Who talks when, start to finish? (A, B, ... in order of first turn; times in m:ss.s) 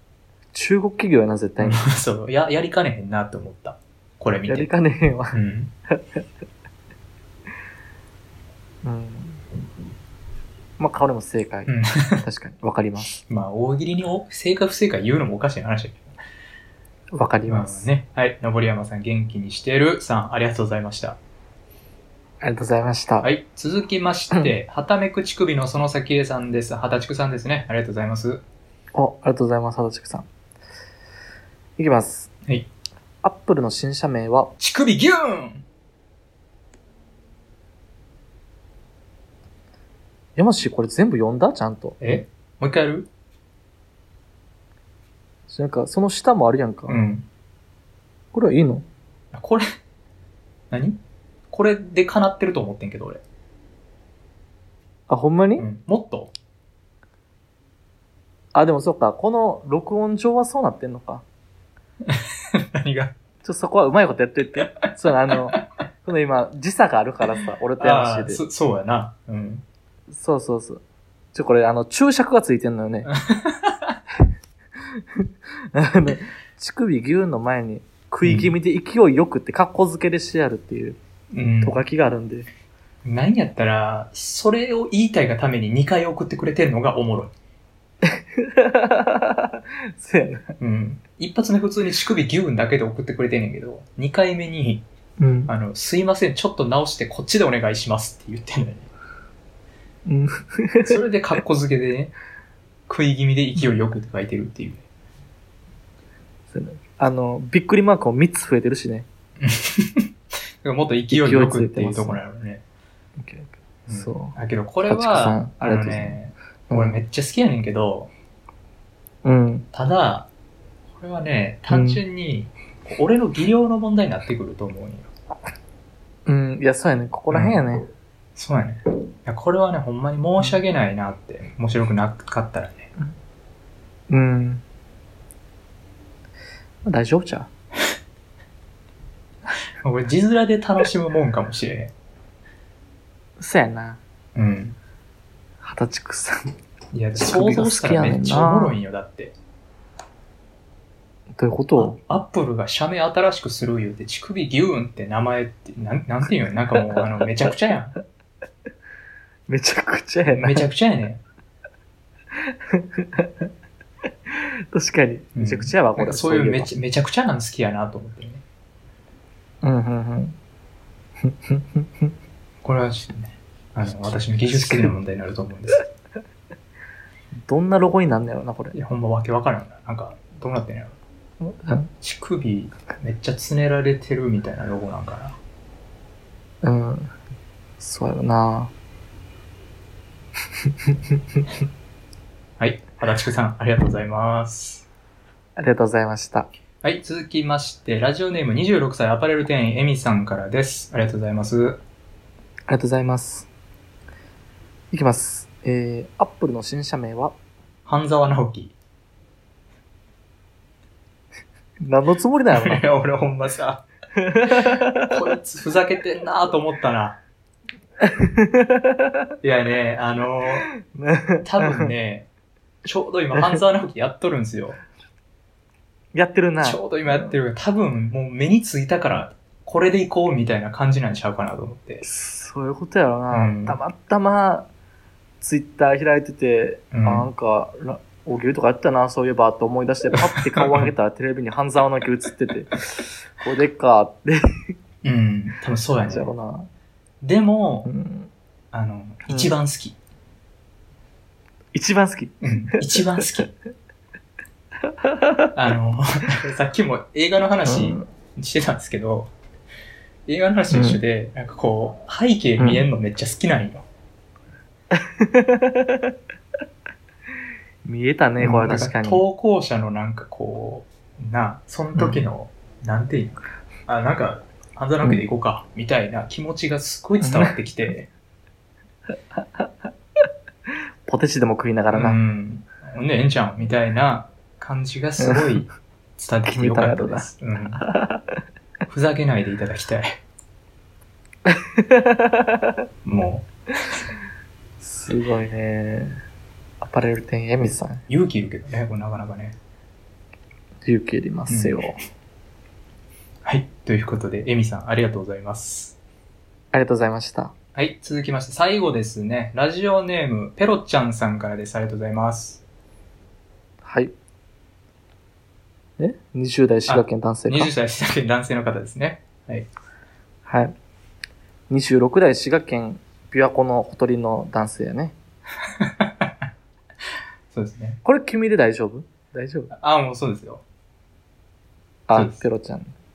0:00.5-0:01.9 A
0:01.6-0:04.7 B
0:04.4-0:05.4 A
0:05.3-0:05.7 B
0:05.9-0:06.2 A
0:08.8-0:09.4 A
0:10.8-0:13.1 A
0:11.7-0:12.2 B
0:13.1-0:16.1 B
0:17.1-0:17.9 A
0:17.5-0:21.2 B
0:22.4-0:23.3 A
0:23.2-0:28.4 B
0:28.9-0:30.3 A
0:31.8-0:32.3 A
0:33.2-0:34.5 A
0:34.6-0:35.6 B
0:40.4-0:42.0 A
0:42.0-0:43.1 B
0:45.5-0:47.0 A
0:46.9-0:47.2 B
0:48.3-0:48.8 A
0:49.3-0:49.6 B
0:50.7-0:51.0 B
0:51.5-0:53.2 B
0:55.1-0:55.6 A
0:55.6-0:56.3 B
0:58.5-1:01.2 A
1:02.1-1:03.1 B
1:03.4-1:08.4 A
1:07.8-1:09.6 B
1:10.1-1:10.8 A
1:11.3-1:13.1 A
1:13.0-1:14.0 B
1:14.8-1:21.0 A
1:18.2-1:18.5 B
1:21.3-1:21.8 B
1:21.6-1:22.5 A
1:23.0-1:27.3 B
1:28.0-1:30.5 A
1:30.6-1:34.8 B
1:35.2-1:35.5 A
1:35.5-1:38.9 B
1:40.0-1:41.0 A
1:40.8-1:42.1 B
1:42.9-1:44.8 B
1:46.5-1:49.1 A
1:49.4-1:50.1 B
1:50.6-1:52.6 B
1:51.1-1:52.2 A
1:53.2-1:56.2 A
1:53.9-1:58.1 B
1:56.7-1:57.0 A
1:59.2-1:59.7 A
1:59.7-2:00.3 B
2:01.0-2:05.1 B
2:01.7-2:02.0 A
2:06.2-2:07.9 A
2:07.3-2:07.7 B
2:08.4-2:12.9 B
2:14.1-2:14.6 A
2:16.8-2:17.5 A
2:19.8-2:21.9 B
2:23.4-2:24.0 A
2:24.3-2:24.8 B
2:25.6-2:26.5 A
2:26.9-2:29.3 B
2:27.2-2:28.8 A
2:31.3-2:32.0 A
2:31.8-2:38.0 B
2:36.8-2:37.5 A
2:39.5-2:40.6 A
2:40.3-2:41.2 B
2:42.3-2:43.5 A
2:44.3-2:46.7 A
2:45.3-2:48.4 B
2:49.6-2:50.4 A
2:51.2-2:52.1 A
2:52.6-2:55.9 B
2:54.5-2:54.9 A
2:57.4-2:58.8 A
2:58.7-3:01.0 B
3:01.6-3:01.9 A
3:02.0-3:05.4 B
3:06.6-3:07.1 A
3:07.8-3:08.7 A
3:10.6-3:11.4 A
3:12.6-3:14.9 B
3:15.6-3:16.5 A
3:16.8-3:21.8 B
3:22.7-3:23.5 A
3:24.9-3:27.4 A
3:27.8-3:28.7 B
3:31.8-3:32.8 A
3:32.5-3:33.8 B
3:34.2-3:35.2 A
3:34.5-3:37.2 B
3:38.0-3:39.2 A
3:39.4-3:40.7 B
3:40.8-3:41.9 A
3:41.4-3:42.3 B
3:42.8-3:44.8 B
3:43.3-3:43.6 A
3:46.1-3:47.3 A
3:46.6-3:52.0 B
3:52.0-3:54.7 A
3:53.3-3:53.8 B
3:55.4-4:04.7 A
3:56.9-3:57.3 B
4:00.2-4:00.9 B
4:05.0-4:06.3 B
4:06.0-4:06.7 A
4:07.2-4:07.9 B
4:07.8-4:08.3 A
4:08.7-4:10.0 B
4:11.7-4:13.3 A
4:12.4-4:13.5 B
4:14.9-4:15.5 A
4:15.5-4:19.3 B
4:17.6-4:18.0 A
4:20.3-4:23.8 B
4:20.7-4:21.0 A
4:22.6-4:22.8 A
4:24.9-4:26.1 A
4:27.8-4:29.2 A
4:28.4-4:38.1 B
4:31.9-4:32.2 A
4:37.2-4:37.6 A
4:39.4-4:39.7 A
4:40.7-4:42.2 A
4:41.9-4:47.8 B
4:45.2-4:45.7 A
4:46.5-4:48.4 A
4:48.9-4:50.2 B
4:51.4-4:52.8 A
4:53.0-4:53.5 B
4:54.8-4:56.2 A
4:56.8-4:58.0 A
4:58.1-4:59.6 B
5:00.8-5:02.0 A
5:01.5-5:01.9 B
5:03.4-5:06.0 B
5:06.7-5:07.5 A
5:07.7-5:12.6 B
5:13.8-5:14.1 A
5:16.0-5:17.7 A
5:16.9-5:19.7 B
5:20.4-5:20.7 A
5:21.7-5:25.1 A
5:25.8-5:26.3 B
5:27.5-5:28.0 B
5:28.0-5:29.7 A
5:29.7-5:30.6 B
5:32.1-5:32.9 A
5:32.1-5:32.4 B